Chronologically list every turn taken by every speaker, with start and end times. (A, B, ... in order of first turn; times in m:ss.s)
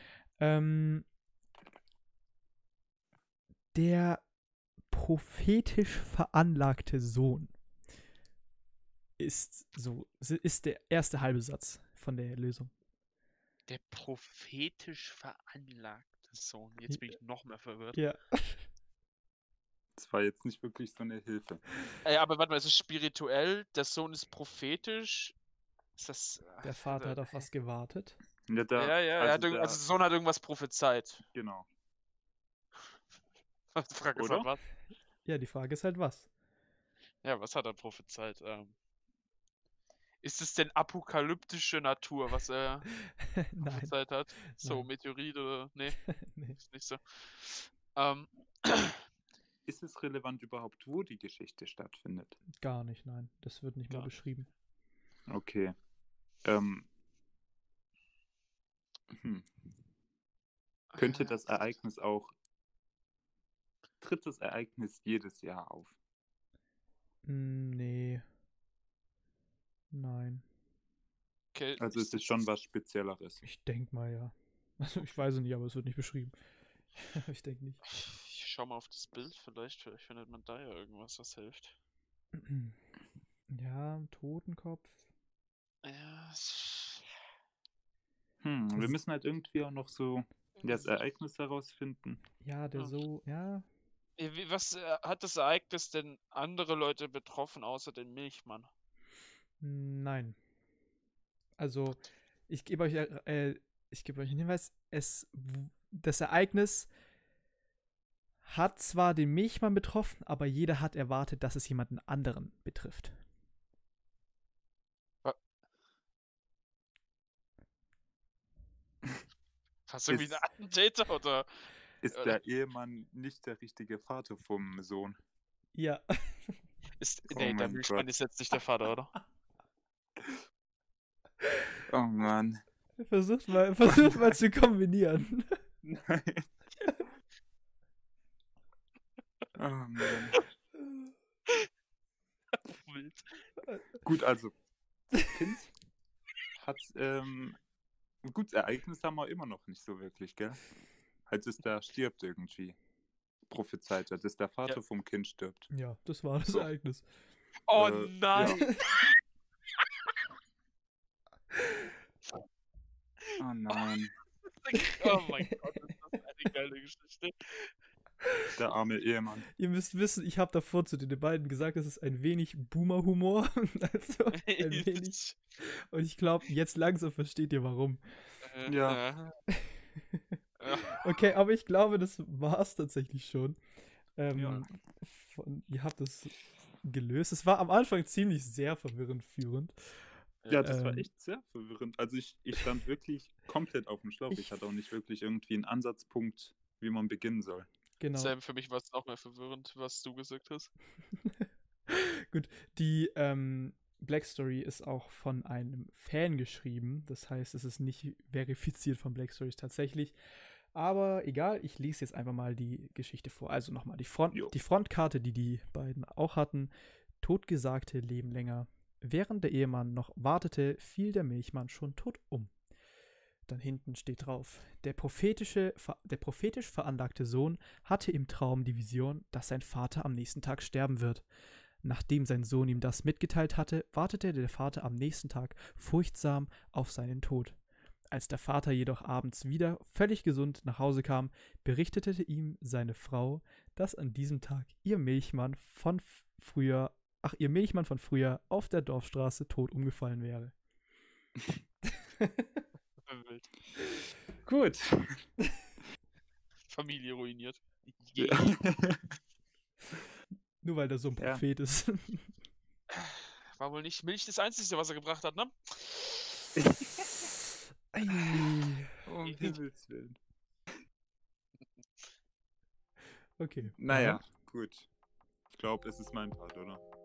0:00.4-0:01.1 A
0:03.7-0:04.2 A
0:04.9-0:07.5 A
0:09.2-0:12.7 A
0:13.7-0:18.0 B
0:17.9-0:18.6 A
0:20.0-0:21.6 C
0:22.0-0:25.3 B
0:26.0-0:27.4 B
0:26.6-0:28.2 A
0:28.5-0:29.8 C
0:28.8-0:31.2 B
0:31.3-0:31.7 C
0:33.8-0:34.6 B
0:34.2-0:34.5 C
0:35.2-0:36.3 A
0:37.2-0:38.7 B
0:40.2-0:42.8 B
0:43.0-0:43.9 A
0:43.6-0:46.0 B
0:44.6-0:44.9 A
0:46.0-0:46.6 A
0:46.6-0:49.0 B
0:49.6-0:52.4 C
0:52.6-0:54.5 A
0:55.3-0:55.7 C
0:56.4-0:56.9 C
0:59.1-0:59.5 C
1:00.9-1:01.6 B
1:01.0-1:02.3 C
1:04.0-1:06.0 C
1:07.2-1:08.2 A
1:09.9-1:10.4 A
1:11.5-1:12.5 B
1:11.8-1:13.4 C
1:13.4-1:16.3 A
1:17.0-1:17.8 A
1:17.9-1:21.8 B
1:22.3-1:22.8 A
1:23.5-1:25.0 A
1:25.8-1:27.1 B
1:28.4-1:32.2 C
1:32.4-1:33.7 A
1:34.2-1:38.7 B
1:39.6-1:40.4 A
1:41.6-1:46.9 A
1:48.4-1:53.2 A
1:59.9-2:01.5 B
2:00.1-2:00.4 C
2:02.0-2:05.2 C
2:02.1-2:02.4 B
2:05.7-2:06.6 A
2:07.0-2:09.1 B
2:07.3-2:08.1 C
2:11.9-2:12.6 C
2:13.0-2:15.6 A
2:15.8-2:16.5 C
2:19.5-2:20.4 C
2:22.6-2:23.2 B
2:24.0-2:24.5 C
2:25.3-2:25.7 C
2:26.6-2:27.6 C
2:28.2-2:30.6 C
2:31.3-2:32.8 C
2:33.5-2:35.7 C
2:35.7-2:37.0 A
2:37.7-2:39.1 B
2:37.7-2:38.7 C
2:38.4-2:38.7 A
2:41.6-2:41.9 A
2:43.3-2:43.8 B
2:43.4-2:44.1 C
2:44.6-2:47.7 B
2:44.9-2:45.4 A
2:48.6-2:49.5 C
2:49.6-2:58.0 A
2:54.4-2:55.4 B
2:58.4-2:59.3 B
2:58.6-2:59.0 C
2:59.6-3:03.6 A
3:00.6-3:01.2 B
3:04.2-3:10.0 A
3:04.3-3:04.7 C
3:04.4-3:04.6 B
3:10.4-3:10.7 B
3:10.5-3:17.7 C
3:10.6-3:11.1 A
3:18.0-3:18.3 A
3:18.1-3:20.7 B
3:21.2-3:30.2 A
3:30.7-3:42.5 A
3:43.5-3:51.2 A
3:51.8-3:57.6 A
3:58.1-4:10.5 A
4:12.0-4:12.6 A
4:13.0-4:13.5 B
4:14.4-4:15.2 C
4:16.7-4:18.6 B
4:18.2-4:19.0 C
4:20.6-4:22.3 A
4:21.2-4:21.4 C
4:22.9-4:26.2 B
4:26.6-4:27.2 C
4:27.9-4:28.9 A
4:29.0-4:30.2 C
4:29.2-4:29.6 B
4:33.4-4:34.2 A
4:33.8-4:34.9 C
4:35.5-4:36.8 C